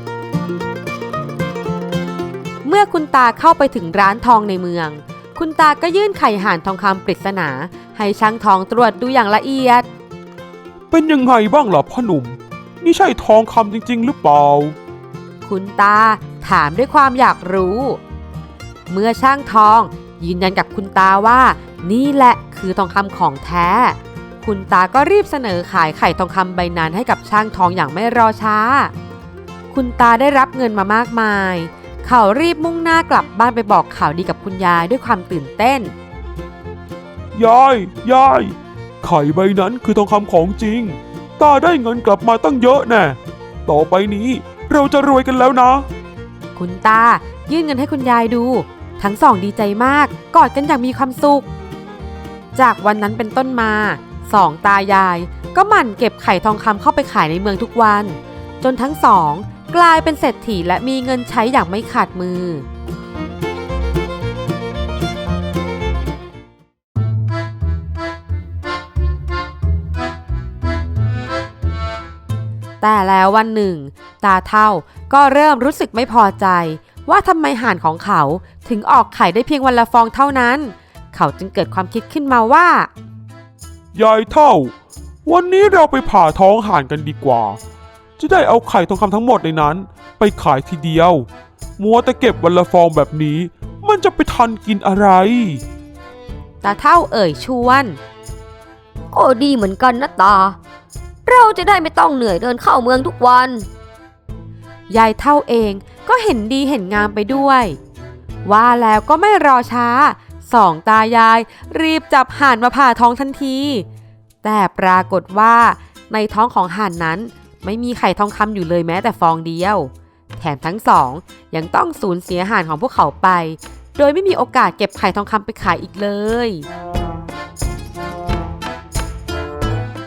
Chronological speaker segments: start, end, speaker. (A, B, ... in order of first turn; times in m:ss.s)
0:02.6-0:09.9 A
0:10.9-0:14.8 B
0:15.4-0:18.0 A
0:18.9-0:28.9 A
0:29.7-0:35.9 A
0:37.3-0:45.9 B
0:46.6-0:51.5 A
0:52.6-1:02.7 A
1:12.8-1:22.9 A
1:23.9-1:24.7 B
1:25.3-1:27.6 B
1:28.2-1:35.6 B
1:36.6-1:38.0 A
1:39.1-1:40.6 C
1:41.3-1:43.7 C
1:44.9-1:47.8 A
1:48.4-1:53.9 A
1:54.4-2:06.7 A